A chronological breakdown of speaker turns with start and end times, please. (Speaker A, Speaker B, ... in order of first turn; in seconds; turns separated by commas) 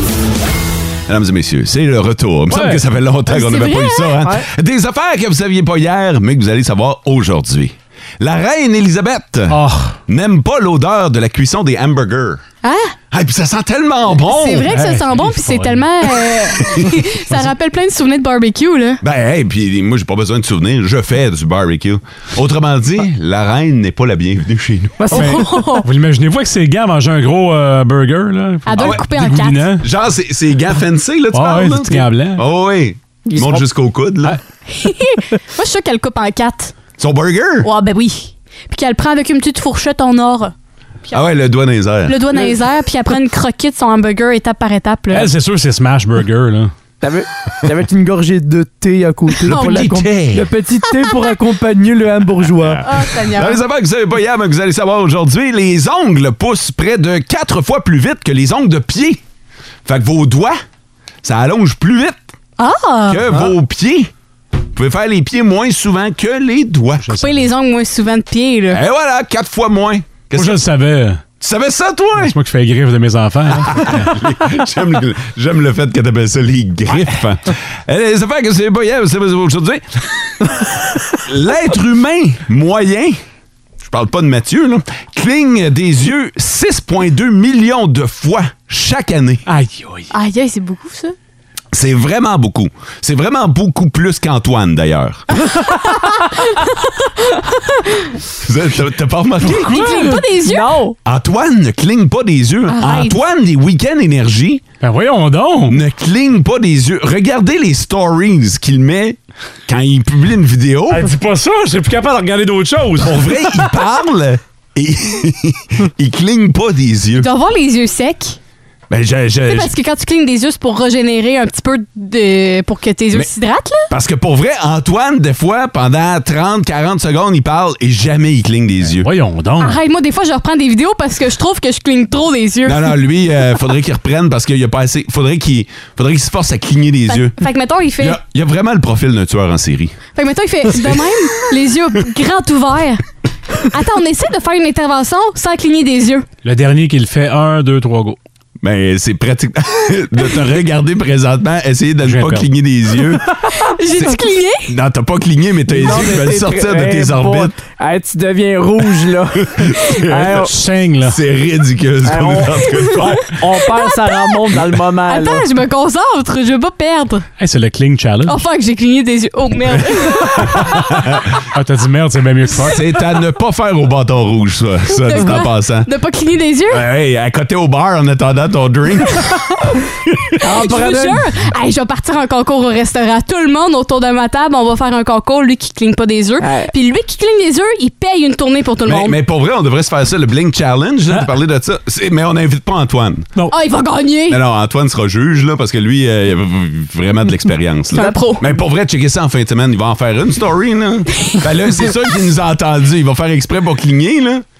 Speaker A: 1.1-12.4, Speaker B: 2.5-2.8, Speaker C: 3.3-4.2, Speaker B: 9.5-10.0, Speaker C: 12.6-12.9, Speaker A: 13.1-14.7, Speaker C: 14.2-19.0, Speaker B: 14.7-15.8, Speaker A: 19.0-25.1, Speaker D: 25.0-25.7, Speaker C: 25.1-25.9, Speaker B: 25.1-29.9, Speaker C: 28.6-29.7, Speaker A: 28.8-29.1, Speaker A: 29.8-34.4, Speaker B: 31.3-32.4, Speaker D: 33.2-33.6, Speaker C: 34.7-36.7, Speaker A: 37.0-37.7, Speaker C: 37.6-40.5, Speaker A: 41.1-42.2, Speaker C: 42.0-45.3, Speaker B: 45.1-46.7, Speaker D: 47.0-52.8, Speaker A: 49.4-50.5, Speaker C: 49.5-50.0, Speaker A: 52.6-59.2, Speaker C: 52.8-53.6, Speaker A: 59.8-60.6, Speaker A: 61.2-62.2, Speaker C: 62.6-63.2, Speaker A: 63.1-64.1, Speaker A: 64.7-67.2, Speaker B: 67.0-67.4, Speaker C: 67.2-68.8, Speaker A: 68.7-70.6, Speaker B: 70.3-71.2, Speaker A: 71.4-72.3, Speaker B: 72.2-74.2, Speaker A: 73.6-80.6, Speaker A: 81.2-83.2, Speaker A: 83.8-89.5, Speaker B: 89.5-90.1, Speaker C: 90.1-91.1, Speaker A: 91.7-95.2, Speaker C: 95.4-98.2, Speaker A: 98.4-100.0, Speaker C: 99.5-100.7, Speaker D: 99.9-101.0, Speaker A: 101.0-104.6, Speaker C: 102.7-103.2, Speaker B: 104.8-105.8, Speaker A: 105.7-111.1, Speaker B: 110.9-113.7, Speaker A: 113.0-117.3, Speaker C: 117.2-118.4, Speaker A: 118.9-119.7, Speaker C: 119.5-123.9, Speaker A: 123.9-129.1, Speaker B: 128.9-129.8, Speaker C: 129.6-132.9, Speaker A: 132.6-137.4, Speaker C: 137.1-138.2, Speaker A: 138.0-140.0, Speaker C: 140.2-143.0, Speaker C: 143.6-146.2, Speaker B: 146.4-148.2, Speaker A: 148.6-153.3, Speaker B: 152.0-152.5, Speaker C: 153.6-154.7, Speaker A: 154.0-157.5, Speaker D: 155.7-160.5, Speaker A: 159.5-160.5, Speaker B: 160.2-161.2, Speaker A: 161.0-163.3, Speaker D: 162.0-165.4, Speaker C: 163.8-164.3, Speaker C: 165.1-167.2, Speaker B: 167.4-168.4, Speaker C: 168.2-170.7, Speaker A: 170.2-171.2, Speaker B: 171.5-172.8, Speaker A: 172.6-175.9, Speaker C: 174.9-176.8, Speaker A: 176.7-179.4, Speaker D: 180.4-181.2, Speaker C: 180.5-189.2, Speaker D: 186.4-186.7, Speaker A: 188.8-193.3, Speaker C: 193.5-194.4, Speaker A: 194.3-204.4, Speaker C: 197.9-198.4